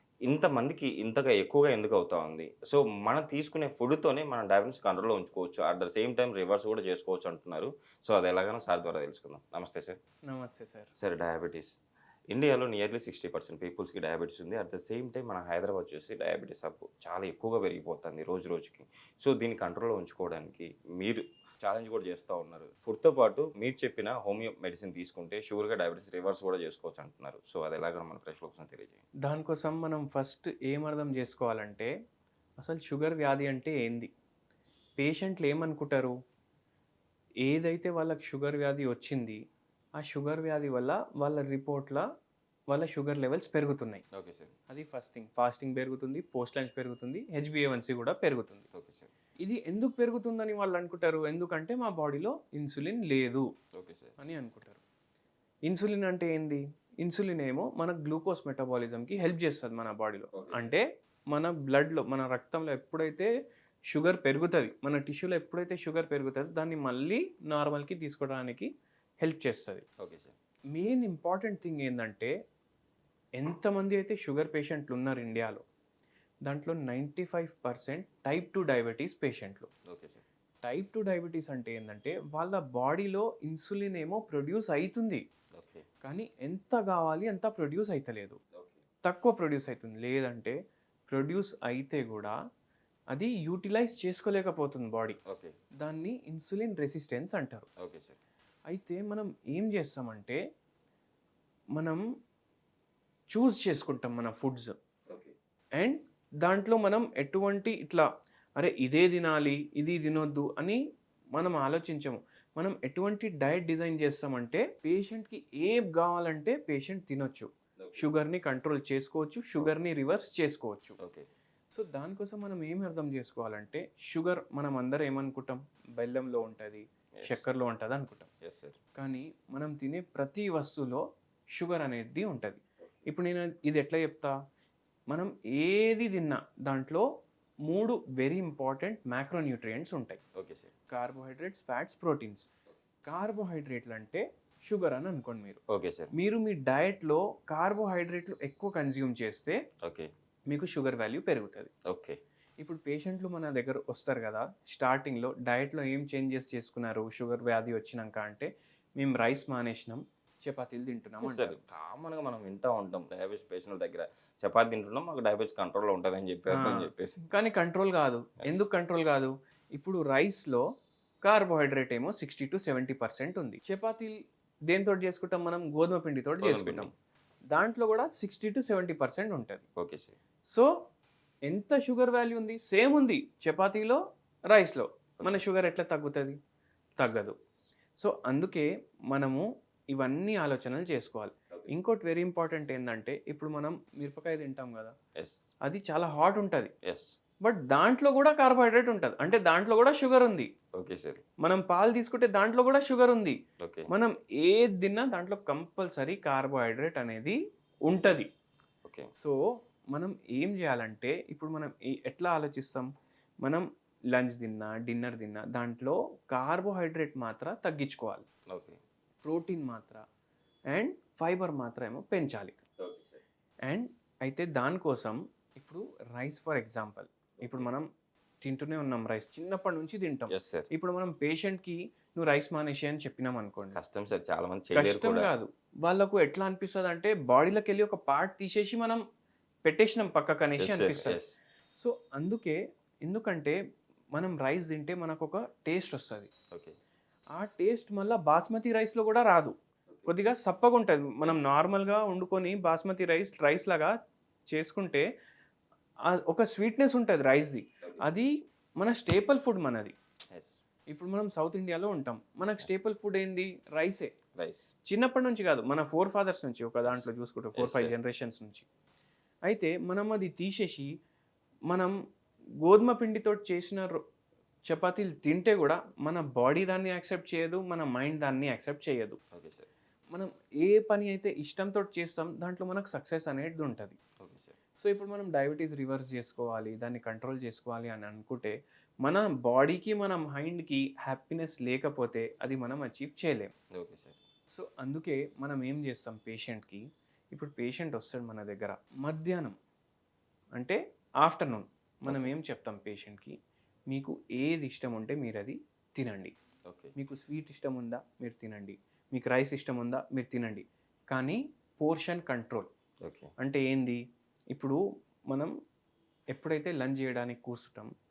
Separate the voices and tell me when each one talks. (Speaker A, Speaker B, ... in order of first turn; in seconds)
Speaker A: 0.2-10.0, 11.0-11.8, 12.3-29.0, 44.1-44.5, 48.7-49.1, 53.8-54.2, 60.4-60.7, 70.0-70.3, 79.9-80.2, 85.5-85.8, 88.5-88.8, 95.3-95.6, 97.8-98.2, 117.8-118.1, 121.0-121.3, 127.2-127.5, 128.4-128.8, 140.4-140.7, 145.7-146.1, 149.8-150.1, 151.9-152.2, 161.2-167.2, 176.4-176.9, 179.8-180.2, 195.2-195.4, 196.8-197.2, 200.8-201.2, 203.6-203.9, 208.8-209.1, 218.5-218.8, 222.8-223.2, 227.4-227.7, 230.3-230.7, 233.8-235.3, 240.6-241.4, 257.9-258.1, 264.4-264.7, 266.8-267.9, 279.3-279.7, 284.2-284.6, 293.8-294.2, 302.1-302.3, 306.7-306.9, 313.0-313.3
Speaker B: 10.3-10.9, 29.2-31.9, 32.6-34.1, 35.0-36.1, 37.5-39.4, 40.0-42.0, 42.7-44.0, 44.7-48.7, 49.4-53.5, 54.2-54.8, 55.7-63.3, 63.9-68.7, 69.2-69.9, 70.7-72.3, 73.4-75.6, 76.5-79.7, 80.6-85.2, 86.0-88.4, 89.0-90.5, 91.1-92.3, 93.1-95.2, 95.8-97.7, 98.7-100.4, 103.3-104.8, 105.8-108.1, 108.6-110.8, 111.4-121.0, 121.7-128.3, 129.0-131.0, 131.6-134.3, 135.1-137.0, 137.7-140.2, 140.9-142.5, 143.1-145.6, 146.1-149.6, 150.5-151.7, 152.6-161.6, 166.5-170.6, 171.2-174.2, 174.7-176.9, 177.5-179.6, 181.5-184.0, 184.5-186.4, 187.0-187.3, 188.0-189.4, 189.9-194.9, 195.7-196.7, 197.4-200.5, 201.4-203.4, 203.9-208.3, 209.9-212.9, 213.4-218.3, 219.2-220.0, 220.7-222.6, 223.7-227.8, 228.4-233.8, 234.8-239.0, 239.7-241.2, 241.8-243.6, 244.2-246.3, 247.4-249.5, 250.1-253.9, 254.5-255.0, 256.1-259.9, 260.9-264.1, 264.9-268.7, 269.5-270.9, 272.6-274.0, 274.7-279.2, 280.1-284.0, 284.8-288.5, 289.0-293.5, 294.5-296.8, 297.3-299.6, 300.6-303.3, 303.9-306.3, 307.0-312.7, 313.4-314.0, 314.5-314.8, 316.3-317.9